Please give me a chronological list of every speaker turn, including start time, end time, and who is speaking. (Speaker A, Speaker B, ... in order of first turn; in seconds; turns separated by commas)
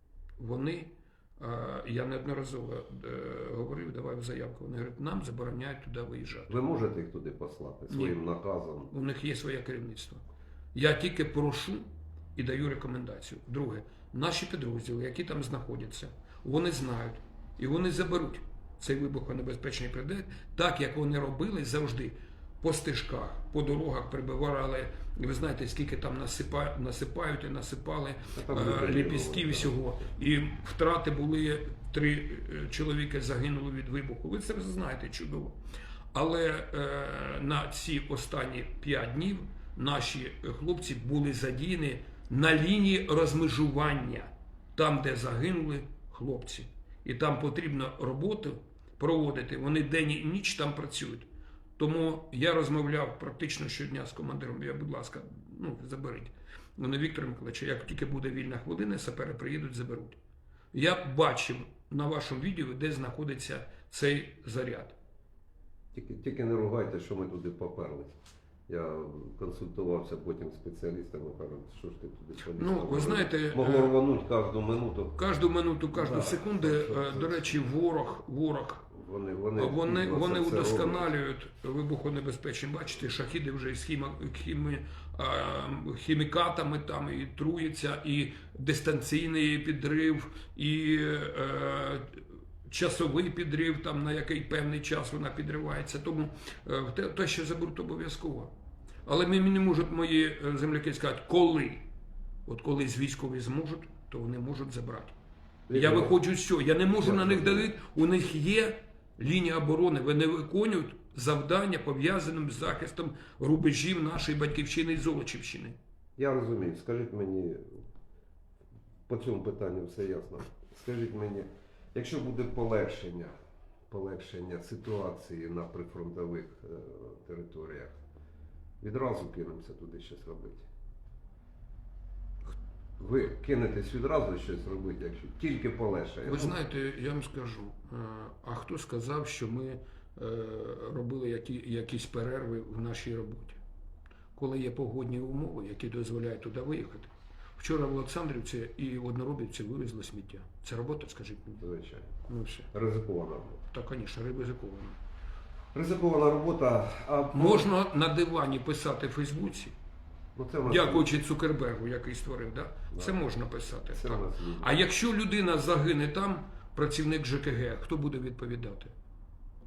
Speaker A: 0.4-6.6, Speaker B: 6.5-8.9, Speaker A: 7.9-8.2, Speaker A: 8.9-35.6, Speaker B: 28.4-29.8, Speaker A: 36.1-60.2, Speaker A: 60.7-65.0, Speaker B: 65.9-68.2, Speaker B: 68.7-75.2, Speaker A: 72.6-74.0, Speaker A: 75.2-78.9, Speaker B: 75.9-77.6, Speaker B: 78.9-81.1, Speaker A: 79.6-98.5, Speaker A: 99.1-101.9, Speaker A: 102.5-105.2, Speaker B: 105.7-106.1, Speaker A: 105.7-115.8, Speaker B: 107.0-107.7, Speaker B: 116.2-117.8, Speaker B: 119.1-123.3, Speaker B: 123.9-128.0, Speaker B: 128.8-130.7, Speaker B: 133.0-136.6, Speaker A: 136.2-143.6, Speaker A: 144.3-151.6, Speaker B: 151.6-152.1, Speaker A: 152.3-152.7, Speaker B: 152.7-153.6, Speaker A: 153.7-155.0, Speaker B: 155.7-157.7, Speaker A: 157.3-159.7, Speaker B: 160.3-161.1, Speaker A: 160.7-168.9, Speaker B: 162.9-163.2, Speaker B: 163.9-164.8